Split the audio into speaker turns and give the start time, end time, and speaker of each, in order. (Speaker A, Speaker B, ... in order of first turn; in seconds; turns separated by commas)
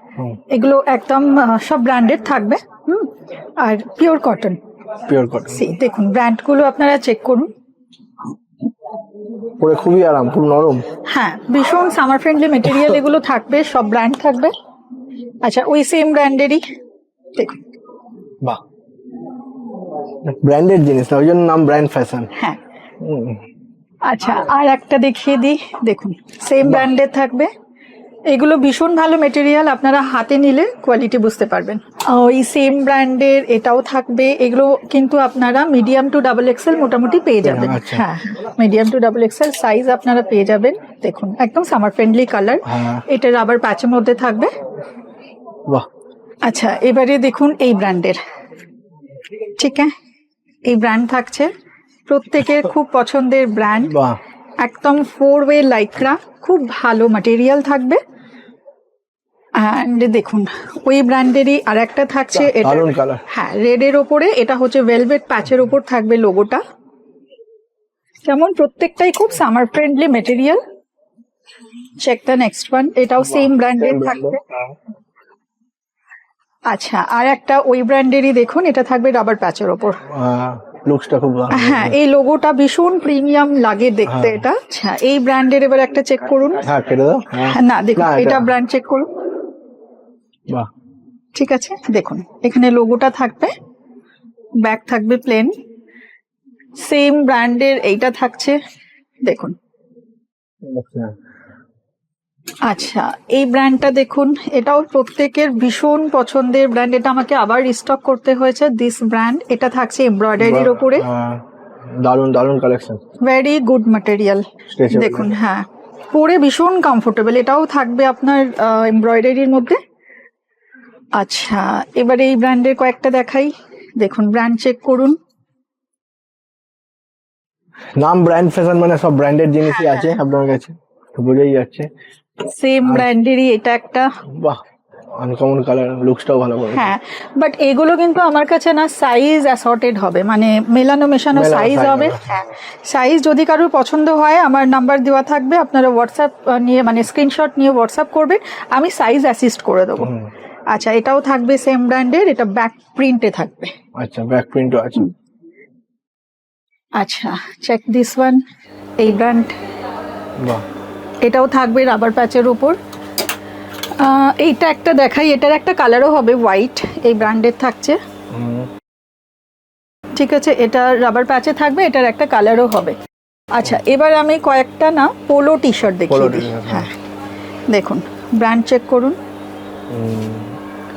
Speaker A: 0.5-4.6, Speaker B: 5.1-5.6, Speaker A: 5.5-7.5, Speaker B: 9.6-10.9, Speaker A: 11.1-14.5, Speaker A: 15.4-16.6, Speaker A: 17.3-17.6, Speaker B: 20.2-22.3, Speaker B: 23.0-23.4, Speaker A: 24.1-27.5, Speaker A: 28.3-44.5, Speaker B: 37.4-38.0, Speaker B: 42.6-43.0, Speaker A: 46.4-48.2, Speaker A: 49.5-49.9, Speaker A: 50.6-51.5, Speaker A: 52.1-53.9, Speaker B: 53.9-54.2, Speaker A: 54.6-58.0, Speaker A: 59.6-66.6, Speaker B: 62.4-63.2, Speaker A: 68.2-70.6, Speaker A: 72.0-74.4, Speaker B: 73.3-74.6, Speaker A: 76.7-80.0, Speaker B: 80.1-81.9, Speaker A: 81.5-86.7, Speaker B: 84.0-84.4, Speaker B: 86.6-88.5, Speaker A: 87.3-89.1, Speaker A: 91.3-93.5, Speaker A: 94.6-95.5, Speaker A: 96.8-98.6, Speaker A: 99.2-99.5, Speaker B: 100.6-101.1, Speaker A: 102.6-111.0, Speaker B: 110.4-111.4, Speaker B: 112.0-113.0, Speaker A: 113.2-119.8, Speaker B: 114.7-115.3, Speaker A: 121.2-125.2, Speaker B: 128.0-131.9, Speaker A: 132.4-134.1, Speaker B: 134.3-134.6, Speaker B: 135.2-136.9, Speaker A: 136.7-150.1, Speaker B: 141.3-142.4, Speaker B: 150.0-150.3, Speaker A: 150.7-153.7, Speaker B: 154.0-155.1, Speaker A: 157.0-158.4, Speaker A: 159.0-159.5, Speaker B: 160.4-160.6, Speaker A: 161.2-162.8, Speaker A: 164.0-168.0, Speaker B: 168.3-168.7, Speaker A: 170.1-172.9, Speaker A: 173.5-176.9, Speaker B: 176.1-176.9, Speaker A: 177.7-179.2, Speaker B: 179.9-180.6